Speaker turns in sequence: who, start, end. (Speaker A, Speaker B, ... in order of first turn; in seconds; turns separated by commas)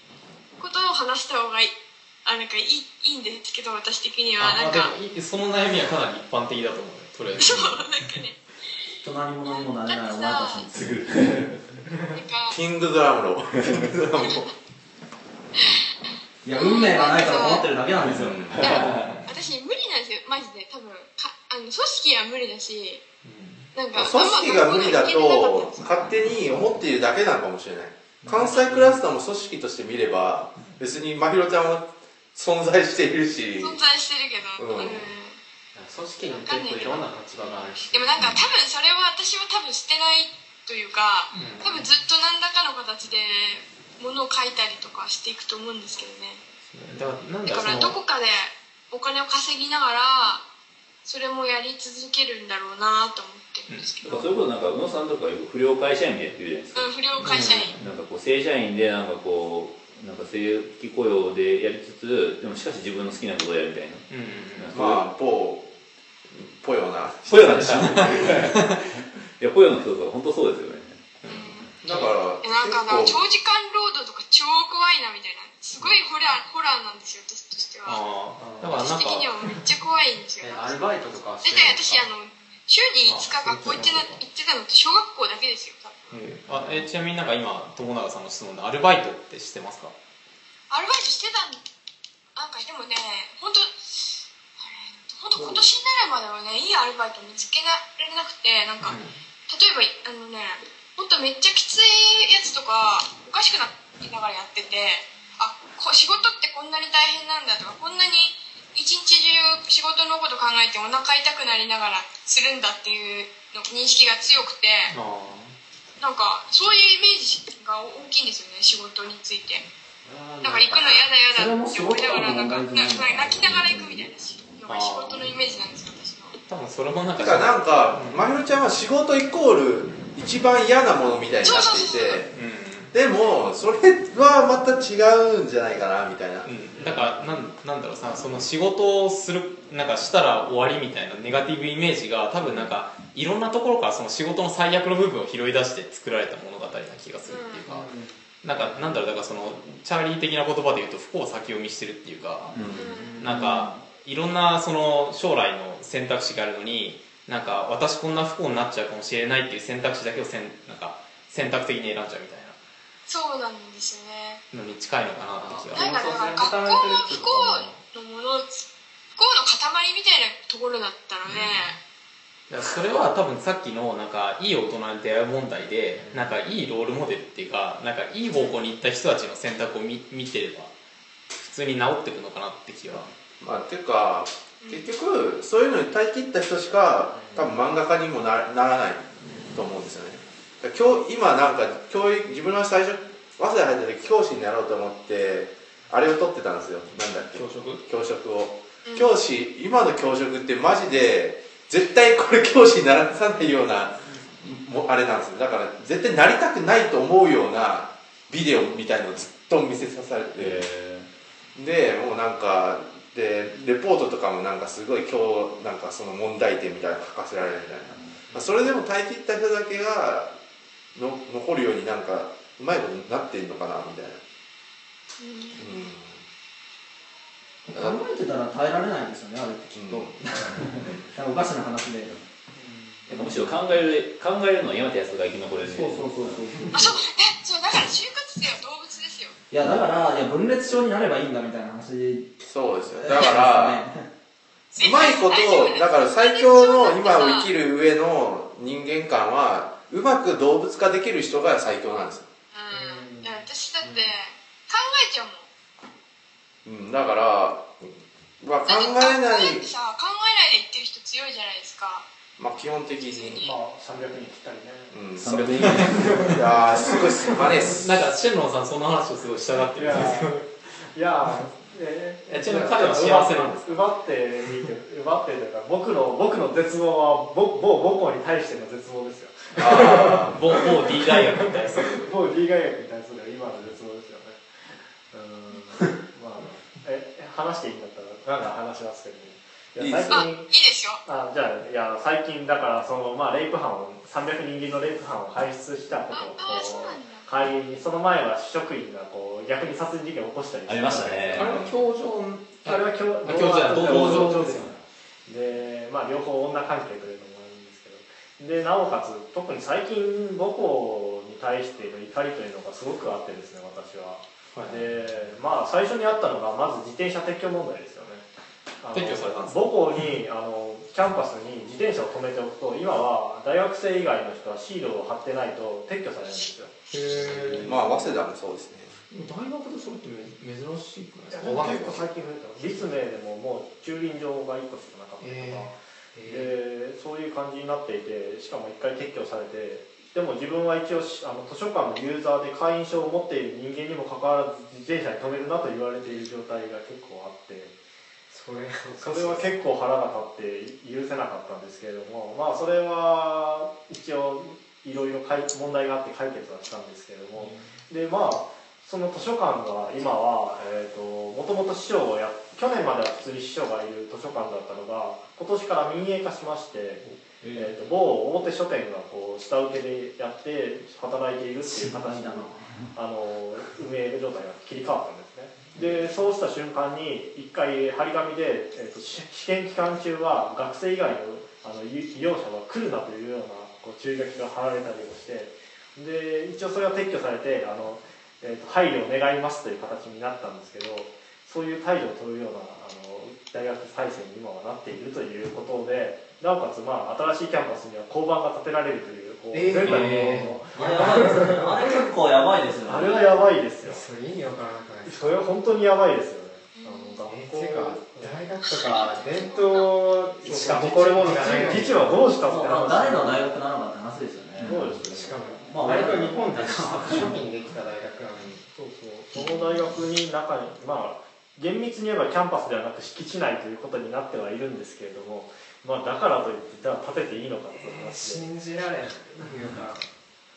Speaker A: 0.6-4.9, Speaker B: 4.4-7.8, Speaker A: 7.4-8.4, Speaker C: 9.0-11.3, Speaker A: 9.4-10.7, Speaker D: 10.8-11.6, Speaker A: 12.1-12.6, Speaker E: 12.5-14.5, Speaker A: 14.2-14.5, Speaker C: 16.4-18.6, Speaker A: 16.5-17.7, Speaker E: 18.1-18.8, Speaker A: 18.6-23.0, Speaker D: 18.6-19.2, Speaker B: 23.2-23.7, Speaker A: 23.8-26.1, Speaker E: 23.9-33.8, Speaker A: 33.6-35.4, Speaker E: 34.6-35.1, Speaker F: 35.8-38.2, Speaker A: 36.3-46.4, Speaker B: 41.3-41.9, Speaker B: 46.7-48.0, Speaker A: 47.5-50.4, Speaker A: 51.0-54.2, Speaker B: 53.7-54.2, Speaker D: 54.0-65.1, Speaker A: 56.8-57.7, Speaker B: 57.2-57.9, Speaker B: 64.1-64.8, Speaker E: 64.7-65.7, Speaker E: 66.3-68.5, Speaker D: 67.3-71.0, Speaker B: 67.6-68.8, Speaker B: 71.2-72.1, Speaker A: 71.3-71.7, Speaker E: 71.8-73.2, Speaker A: 72.4-78.0, Speaker B: 77.9-79.3, Speaker F: 78.4-78.8, Speaker A: 78.7-80.8, Speaker F: 80.4-82.1, Speaker A: 81.4-86.1, Speaker B: 83.1-84.2, Speaker B: 86.1-89.9, Speaker F: 86.5-86.8, Speaker A: 90.7-91.6, Speaker A: 92.3-114.9, Speaker B: 98.8-99.2, Speaker B: 114.9-115.6, Speaker A: 116.0-119.7, Speaker F: 120.1-121.0, Speaker C: 120.4-120.8, Speaker A: 120.4-126.4, Speaker C: 121.3-124.1, Speaker B: 124.7-125.3, Speaker B: 126.5-128.2, Speaker E: 127.2-132.3, Speaker A: 131.4-132.2, Speaker B: 132.3-132.9, Speaker E: 132.9-136.5, Speaker B: 136.4-147.9, Speaker F: 136.8-137.2, Speaker A: 147.2-147.6, Speaker F: 147.7-148.9, Speaker B: 148.4-152.6, Speaker D: 152.6-152.8, Speaker A: 152.8-153.2, Speaker F: 152.8-153.4, Speaker B: 153.2-162.6, Speaker D: 153.4-153.7, Speaker A: 163.1-164.4, Speaker B: 164.5-165.9, Speaker F: 165.3-167.8, Speaker A: 165.7-168.7, Speaker A: 169.2-171.8, Speaker B: 172.5-180.7, Speaker F: 176.0-176.4, Speaker A: 178.3-178.6, Speaker B: 181.4-183.1, Speaker E: 183.4-210.7, Speaker A: 184.6-184.9, Speaker F: 187.1-187.6, Speaker F: 189.3-189.6, Speaker B: 197.3-197.8, Speaker A: 198.8-199.1, Speaker D: 210.4-211.1, Speaker E: 211.6-220.3, Speaker D: 217.9-218.2, Speaker E: 220.9-224.2, Speaker A: 225.2-225.8, Speaker E: 225.6-226.2, Speaker C: 227.7-232.2, Speaker E: 227.8-228.0, Speaker E: 229.7-230.2, Speaker E: 230.8-231.1, Speaker F: 232.6-233.0, Speaker C: 233.1-233.6, Speaker D: 233.1-236.7, Speaker C: 235.6-237.0, Speaker A: 236.7-239.4, Speaker C: 239.5-242.4, Speaker E: 242.4-243.9, Speaker C: 242.9-244.0, Speaker A: 244.7-247.5, Speaker E: 244.8-252.3, Speaker A: 252.5-255.5, Speaker F: 252.7-254.1, Speaker E: 256.6-259.7, Speaker A: 258.6-262.1, Speaker E: 262.4-263.5, Speaker A: 263.0-263.5, Speaker G: 263.4-265.0, Speaker E: 264.9-268.0, Speaker D: 265.2-266.4, Speaker B: 265.6-265.9, Speaker B: 267.5-270.4, Speaker G: 269.8-284.5, Speaker B: 272.3-273.8, Speaker E: 279.6-280.4, Speaker B: 279.7-282.1, Speaker G: 285.1-290.5, Speaker E: 289.8-290.3, Speaker A: 290.1-291.0, Speaker G: 291.1-301.6, Speaker A: 296.1-297.2, Speaker D: 300.7-301.6, Speaker B: 301.4-304.7, Speaker E: 301.4-301.8, Speaker G: 302.6-304.7, Speaker D: 303.8-304.7, Speaker G: 305.3-318.2, Speaker B: 314.5-314.9, Speaker G: 318.8-326.8, Speaker B: 318.9-319.7, Speaker F: 326.9-327.9, Speaker E: 327.6-328.9, Speaker B: 329.1-332.1, Speaker G: 331.3-347.8, Speaker B: 335.2-335.7, Speaker F: 336.1-336.6, Speaker F: 348.3-349.6, Speaker G: 349.0-401.9, Speaker F: 357.4-357.7, Speaker D: 367.1-367.7, Speaker C: 371.7-372.6, Speaker F: 399.5-401.7, Speaker B: 399.8-400.6, Speaker C: 400.8-403.5, Speaker G: 402.9-404.0, Speaker F: 403.8-405.4, Speaker G: 405.1-408.4, Speaker A: 406.8-407.2, Speaker F: 407.3-412.4, Speaker A: 408.7-409.9, Speaker G: 410.4-413.5, Speaker C: 411.7-417.4, Speaker D: 414.6-414.9, Speaker G: 414.6-415.4, Speaker F: 415.0-418.7, Speaker G: 418.7-428.5, Speaker F: 427.7-430.1